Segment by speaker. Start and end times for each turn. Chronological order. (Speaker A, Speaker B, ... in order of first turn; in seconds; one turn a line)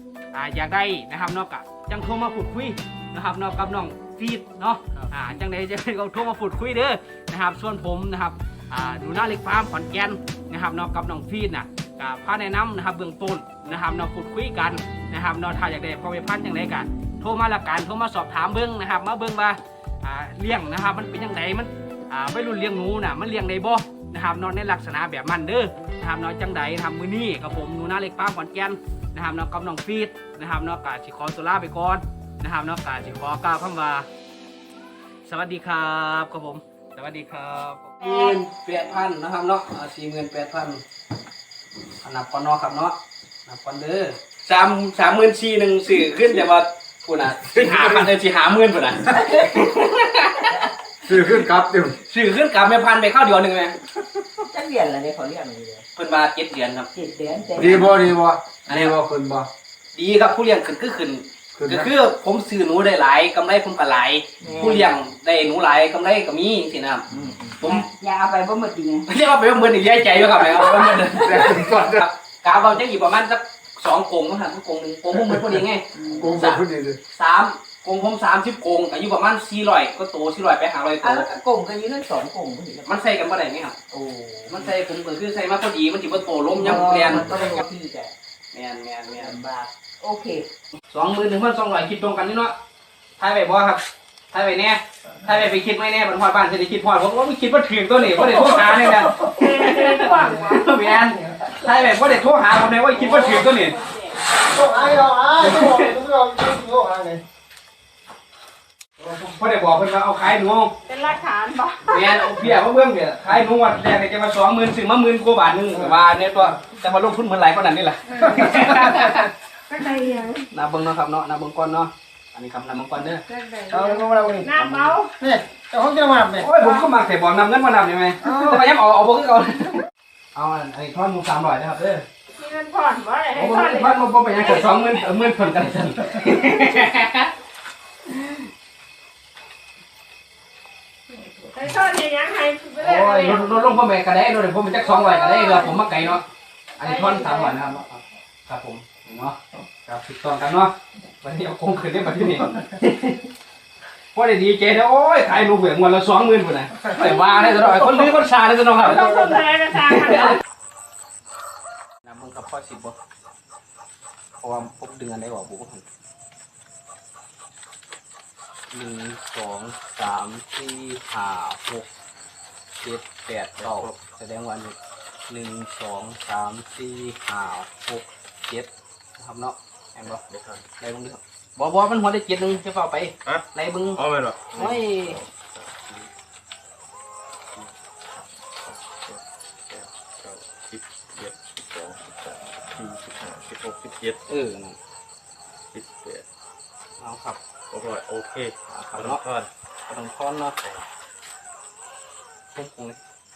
Speaker A: 0.3-34.1
Speaker A: 35.2-40.8
Speaker A: 42.0-50.6
Speaker B: 47.6-48.0
Speaker C: 49.3-49.6
Speaker B: 51.0-52.0
Speaker A: 52.0-53.8
Speaker C: 54.4-55.8
Speaker A: 55.9-56.9
Speaker C: 56.9-58.0
Speaker B: 57.5-59.5
Speaker A: 58.6-59.0
Speaker A: 59.9-67.1
Speaker B: 61.5-61.9
Speaker C: 64.4-64.9
Speaker C: 67.2-69.1
Speaker A: 67.6-67.8
Speaker A: 69.1-81.3
Speaker B: 70.8-72.0
Speaker C: 76.0-76.3
Speaker B: 76.2-77.0
Speaker C: 81.0-82.9
Speaker A: 82.8-83.8
Speaker C: 83.9-84.7
Speaker A: 84.5-87.6
Speaker C: 86.5-88.1
Speaker A: 88.5-89.4
Speaker C: 89.1-90.5
Speaker A: 90.9-92.5
Speaker A: 93.2-103.8
Speaker D: 99.3-100.7
Speaker B: 104.5-107.2
Speaker A: 105.3-106.0
Speaker A: 109.0-110.7
Speaker D: 110.9-112.1
Speaker A: 111.9-119.3
Speaker D: 119.7-120.3
Speaker A: 120.5-123.2
Speaker D: 123.3-125.1
Speaker B: 123.7-124.5
Speaker A: 124.5-124.9
Speaker B: 125.2-126.5
Speaker A: 126.4-132.0
Speaker D: 132.4-133.8
Speaker A: 133.3-137.3
Speaker A: 138.1-138.4
Speaker D: 141.4-143.4
Speaker A: 142.8-146.2
Speaker A: 146.8-153.2
Speaker D: 146.8-147.5
Speaker A: 154.1-160.4
Speaker D: 158.8-160.4
Speaker A: 162.0-162.9
Speaker A: 164.4-165.8
Speaker A: 168.7-171.9
Speaker A: 172.8-174.8
Speaker E: 173.6-174.0
Speaker A: 175.3-180.2
Speaker E: 180.0-180.6
Speaker A: 180.8-184.0
Speaker E: 183.2-186.1
Speaker A: 184.6-185.2
Speaker E: 187.5-194.2
Speaker A: 194.3-194.8
Speaker E: 195.7-196.2
Speaker A: 197.0-197.4
Speaker E: 197.7-199.5
Speaker A: 198.7-199.2
Speaker A: 199.9-200.6
Speaker A: 202.5-203.0